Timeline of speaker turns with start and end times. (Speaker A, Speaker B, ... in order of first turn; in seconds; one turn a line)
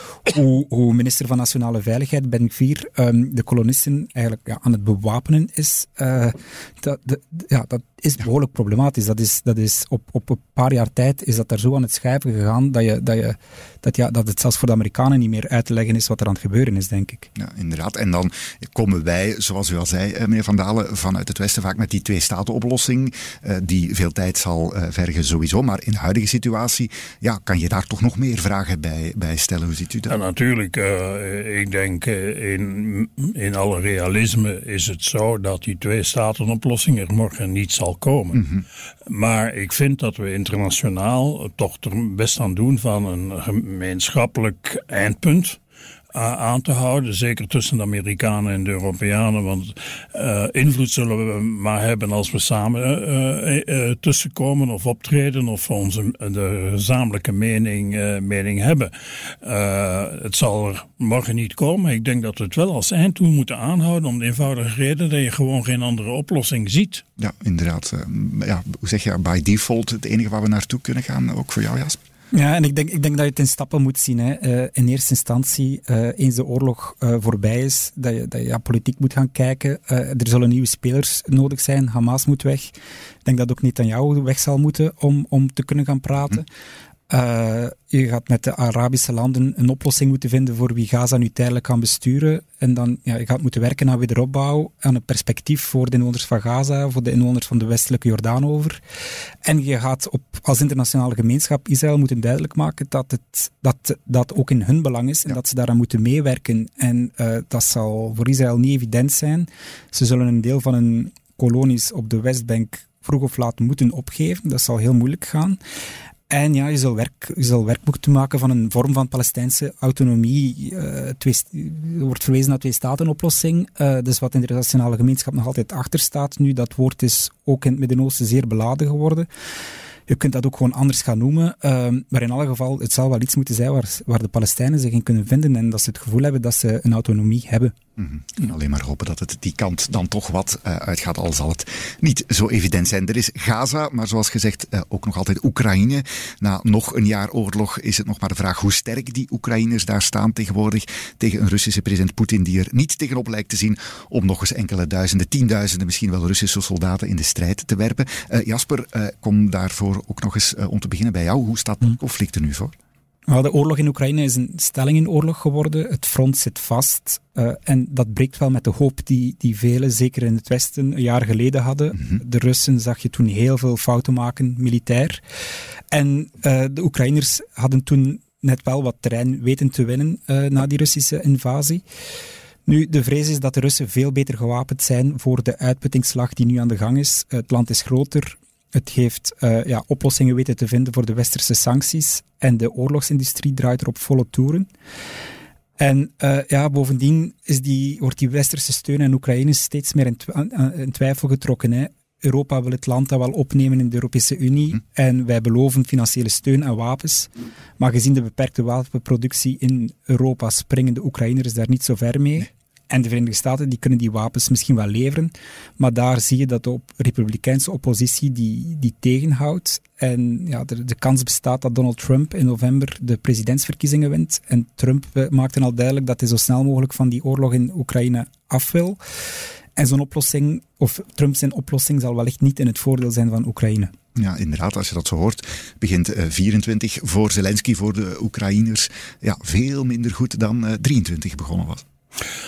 Speaker A: 0.1-17.3
Speaker B: 17.4-30.1
Speaker C: 30.1-38.5
Speaker B: 38.4-38.6
Speaker C: 39.0-45.6
Speaker C: 46.1-67.0
Speaker B: 67.2-72.0
Speaker A: 72.3-86.5
Speaker A: 87.1-98.8
Speaker A: 99.4-115.6
Speaker A: 116.3-129.3
Speaker A: 130.1-137.7
Speaker B: 138.0-162.7
Speaker A: 163.3-175.2
Speaker A: 175.9-181.8
Speaker A: 182.7-194.7
Speaker A: 195.8-229.0
Speaker A: 229.8-233.9
Speaker B: 234.1-241.8